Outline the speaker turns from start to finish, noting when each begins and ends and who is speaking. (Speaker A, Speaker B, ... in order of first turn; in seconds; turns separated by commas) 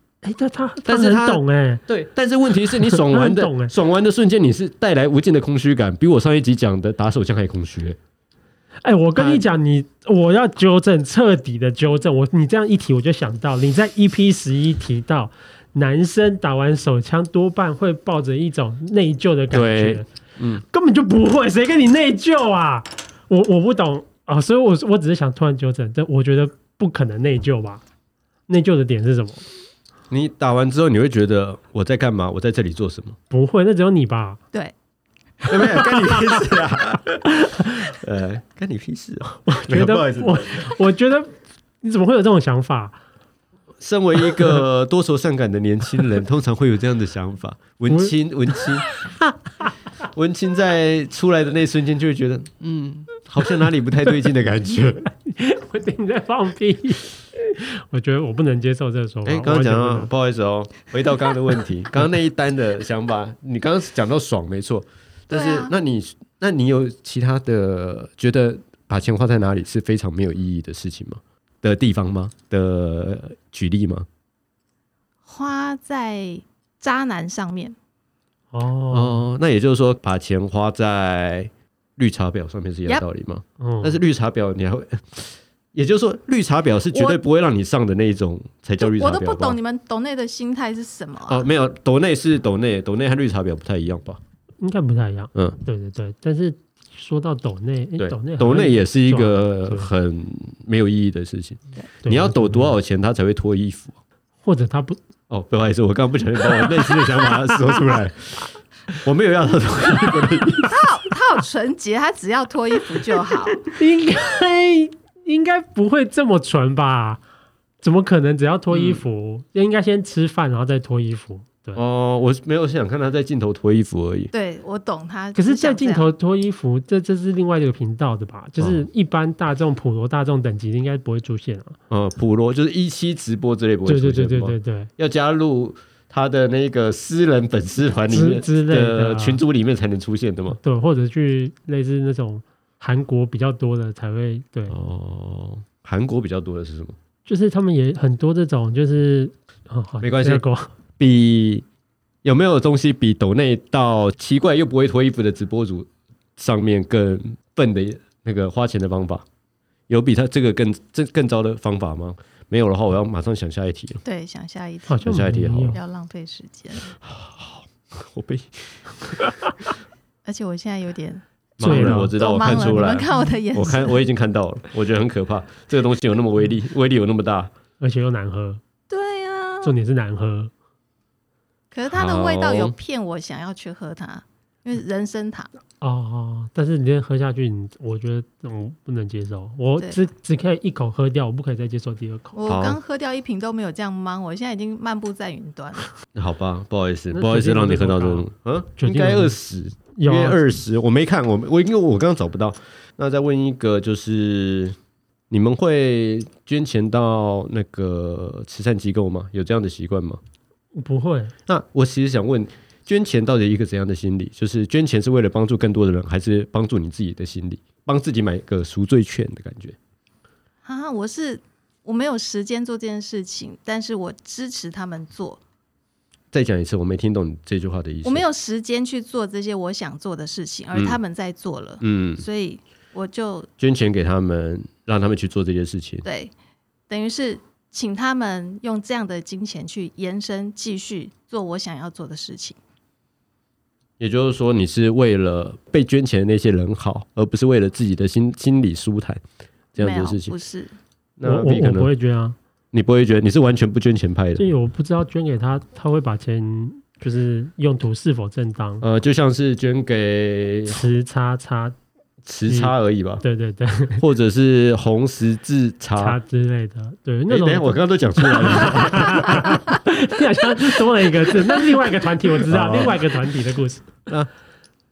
Speaker A: 0.2-1.9, Speaker B: 0.9-8.0, Speaker A: 2.7-3.7, Speaker A: 8.8-20.1, Speaker B: 9.2-9.5, Speaker B: 19.5-20.6, Speaker A: 20.6-27.8, Speaker A: 28.5-29.4, Speaker B: 30.1-33.2, Speaker A: 33.3-34.4, Speaker B: 35.5-40.7, Speaker A: 35.7-36.4, Speaker A: 37.4-37.9, Speaker A: 39.5-43.0, Speaker B: 43.8-48.9, Speaker A: 44.2-44.6, Speaker A: 47.9-49.0, Speaker B: 50.1-55.1, Speaker A: 55.2-60.1, Speaker B: 59.2-74.1, Speaker C: 65.3-65.7, Speaker C: 75.3-77.8, Speaker A: 78.5-79.2, Speaker B: 78.9-89.6, Speaker A: 83.6-84.0, Speaker C: 86.9-87.2, Speaker C: 88.8-91.5, Speaker B: 91.3-94.2, Speaker A: 94.6-99.9, Speaker B: 98.0-104.0, Speaker A: 102.0-102.8, Speaker A: 104.4-105.0, Speaker B: 105.3-110.8, Speaker A: 106.4-107.9, Speaker C: 110.7-113.6, Speaker A: 113.7-117.2, Speaker A: 117.8-121.8, Speaker B: 118.7-119.0, Speaker B: 121.8-124.3, Speaker C: 124.3-126.1, Speaker A: 125.4-131.8, Speaker B: 128.6-128.9, Speaker B: 131.9-140.6, Speaker A: 133.9-134.9, Speaker A: 138.1-139.4, Speaker A: 140.5-144.8, Speaker B: 144.7-147.0, Speaker A: 147.2-150.7, Speaker B: 150.0-150.4, Speaker B: 151.0-151.7, Speaker B: 152.2-159.2, Speaker B: 159.9-164.0, Speaker C: 164.0-165.0, Speaker A: 164.9-165.8, Speaker B: 165.0-165.8, Speaker C: 165.7-166.9, Speaker B: 167.0-169.3, Speaker C: 170.2-174.0, Speaker B: 171.6-177.5, Speaker A: 171.6-173.0, Speaker A: 177.8-178.6, Speaker C: 178.9-179.8, Speaker A: 179.6-180.5, Speaker C: 181.7-185.5, Speaker B: 181.9-182.8, Speaker A: 185.8-192.4, Speaker C: 192.3-195.9, Speaker B: 192.5-192.8, Speaker B: 196.1-204.8, Speaker A: 197.1-199.4, Speaker A: 199.9-200.4, Speaker B: 205.3-210.2, Speaker A: 210.8-211.3, Speaker B: 211.5-219.8, Speaker C: 220.7-225.4, Speaker B: 226.3-228.3, Speaker C: 228.0-233.5, Speaker B: 231.8-232.2, Speaker B: 233.6-236.0, Speaker C: 236.0-236.3, Speaker C: 236.9-242.6, Speaker B: 244.0-249.2, Speaker B: 249.8-250.4, Speaker C: 249.8-250.8, Speaker B: 251.2-251.9, Speaker A: 251.2-252.4, Speaker B: 252.7-254.5, Speaker A: 254.4-258.8, Speaker B: 258.8-260.9, Speaker A: 260.7-261.8, Speaker B: 262.2-263.2, Speaker A: 262.5-264.0, Speaker B: 264.0-266.2, Speaker A: 266.0-273.9, Speaker B: 267.3-269.4, Speaker B: 272.5-273.0